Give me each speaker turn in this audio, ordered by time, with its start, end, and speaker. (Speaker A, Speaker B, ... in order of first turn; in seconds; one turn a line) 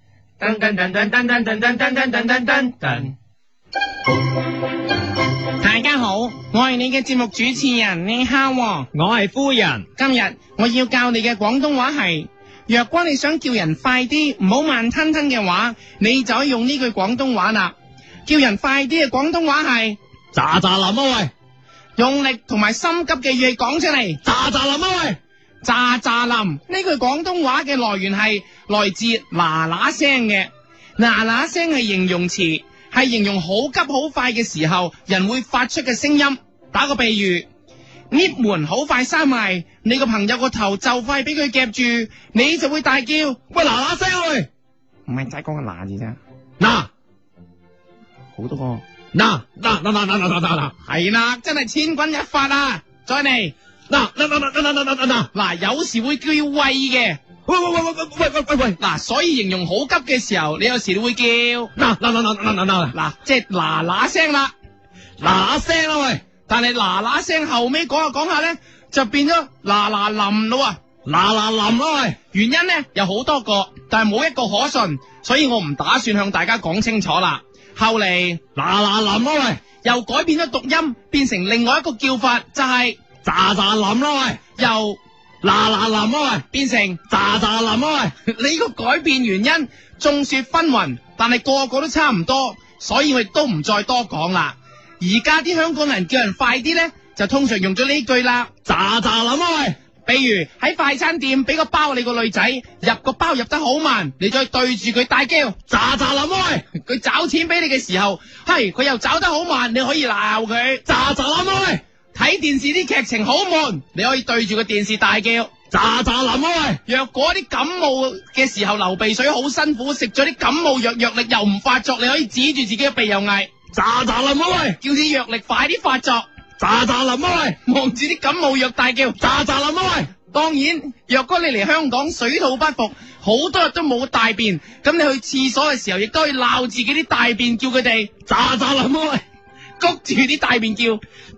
Speaker A: 0.4-3.1
Speaker A: 5.6-8.9
Speaker B: 8.9-9.8
Speaker A: 10.0-17.7
Speaker A: 18.3-20.0
Speaker B: 20.3-21.3
Speaker A: 22.0-24.2
Speaker B: 24.2-25.2
Speaker A: 25.6-37.5
Speaker A: 38.1-43.4
Speaker B: 43.5-44.5
Speaker A: 45.1-46.2
Speaker B: 46.6-46.9
Speaker A: 48.4-48.8
Speaker B: 49.1-50.7
Speaker A: 50.8-53.5
Speaker B: 53.9-55.3
Speaker A: 55.3-57.2
Speaker B: 57.5-58.8
Speaker A: 58.8-61.7
Speaker B: 61.8-62.9
Speaker A: 62.9-64.5
Speaker B: 65.2-66.2
Speaker A: 66.5-70.8
Speaker B: 71.0-72.2
Speaker A: 72.3-78.4
Speaker B: 78.6-79.6
Speaker A: 79.8-83.0
Speaker B: 83.2-84.4
Speaker A: 84.6-85.0
Speaker B: 85.4-86.5
Speaker A: 86.5-87.0
Speaker B: 87.1-88.1
Speaker A: 88.2-98.5
Speaker B: 98.7-99.8
Speaker A: 100.1-105.6
Speaker B: 105.7-106.7
Speaker A: 106.7-110.8
Speaker B: 110.9-111.8
Speaker A: 112.1-115.5
Speaker B: 115.7-116.8
Speaker A: 116.9-123.5
Speaker B: 123.7-124.8
Speaker A: 124.8-126.2
Speaker B: 126.6-127.6
Speaker A: 127.6-129.2
Speaker B: 129.2-130.1
Speaker A: 130.3-138.1
Speaker B: 138.3-139.2
Speaker A: 139.8-141.0